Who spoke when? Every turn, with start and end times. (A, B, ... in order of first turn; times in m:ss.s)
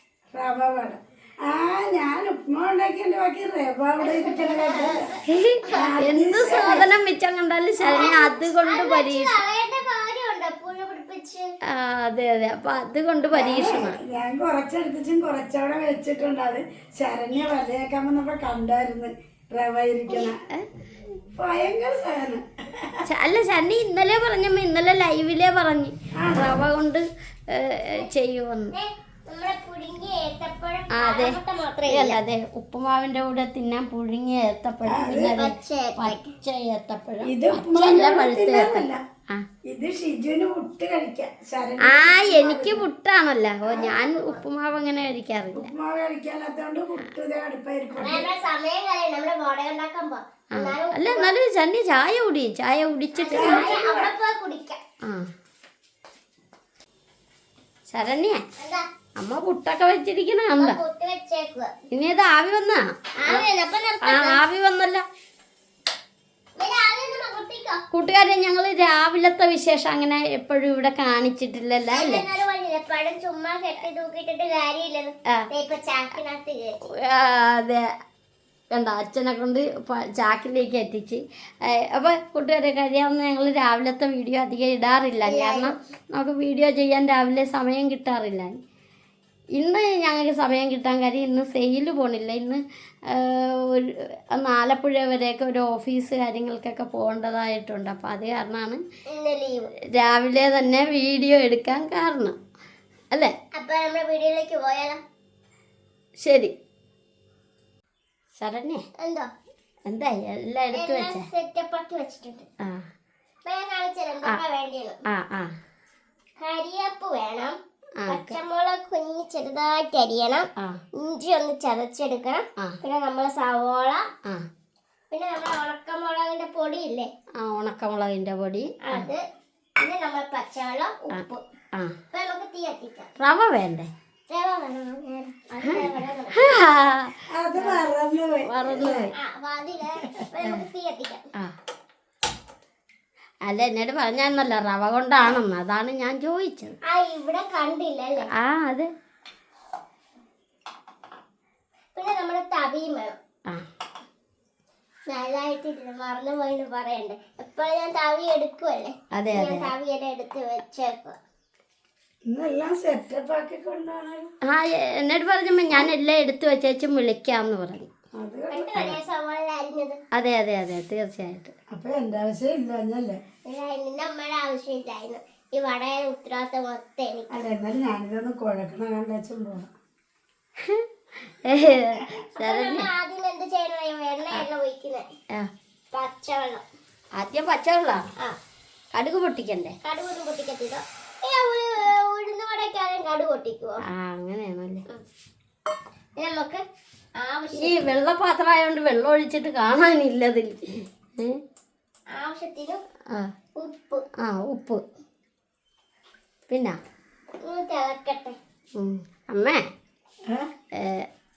0:00.3-0:05.1 A
0:04.0-0:06.8 B
0:05.3-0:09.4 C
0:05.7-0:06.9 A
0:07.8-0:11.5 B
0:11.7-0:14.0 C
0:13.3-0:20.4 A
0:21.4-0:23.0 A
0:23.0-0:28.7 C
0:26.2-0:26.5 A
0:28.7-0:32.2 B
0:30.9-0:39.4 C
0:34.9-0:35.3 A
0:35.2-0:36.2 B
0:37.2-0:39.0 A
0:39.7-0:42.8 A
0:41.8-0:45.7 C
0:43.7-0:44.4 B
0:45.5-0:48.3 A
0:48.0-0:51.3 B
0:50.5-0:53.8 C
0:53.2-0:54.8 B
0:53.4-0:54.1 A
0:55.0-0:55.3 C
0:57.9-0:58.4 C
0:58.6-0:58.8 B
0:59.2-1:00.8 C
1:00.6-1:01.7 B
1:01.9-1:03.4 C
1:03.2-1:04.4 B
1:04.0-1:05.0 C
1:06.6-1:07.8 B
1:07.9-1:12.2 C
1:11.9-1:16.8 B
1:17.0-1:17.8 C
1:18.7-1:28.5 C
1:25.2-1:25.8 B
1:29.6-1:38.8 C
1:39.1-1:39.7 B
1:39.9-1:42.4 C
1:43.6-1:45.0 B
1:46.2-1:46.5 C
1:48.4-1:48.8 C
1:49.0-1:49.3 B
1:49.9-1:51.2 C
1:50.7-1:52.5 B
1:52.6-1:52.9 C
1:53.5-1:55.0 B
1:55.1-1:55.6 C
1:56.4-1:57.6 B
1:58.0-1:58.4 C
1:58.1-2:04.1 B
2:05.1-2:07.1 B
2:07.4-2:09.1 C
2:08.8-2:09.2 B
2:09.8-2:11.4 B
2:11.1-2:12.0 C
2:12.1-2:13.1 B
2:13.2-2:13.9 C
2:14.3-2:16.7 B
2:16.4-2:17.8 C
2:17.3-2:19.1 A
2:18.4-2:19.1 C
2:19.2-2:21.2 B
2:23.5-2:26.8 C
2:26.9-2:28.3 B
2:28.4-2:28.9 C
2:32.0-2:33.2 B
2:35.1-2:41.2 B
2:39.1-2:39.7 C
2:42.3-2:44.3 A
2:44.5-2:47.9 C
2:48.2-2:48.9 A
2:48.5-2:50.0 B
2:50.1-2:51.5 C
2:51.7-2:53.2 A
2:53.5-2:57.3 B
2:57.3-2:59.7 A
3:01.4-3:02.9 C
3:02.4-3:05.1 B
3:05.9-3:06.6 B
3:07.2-3:08.1 C
3:09.0-3:09.8 C
3:09.8-3:13.8 B
3:13.9-3:14.8 C
3:16.2-3:16.6 B
3:17.2-3:17.9 B
3:17.6-3:21.4 C
3:22.2-3:22.8 B
3:23.6-3:24.0 B
3:24.2-3:24.8 C
3:26.5-3:26.8 C
3:27.4-3:28.4 B
3:28.8-3:29.6 C
3:30.8-3:31.1 C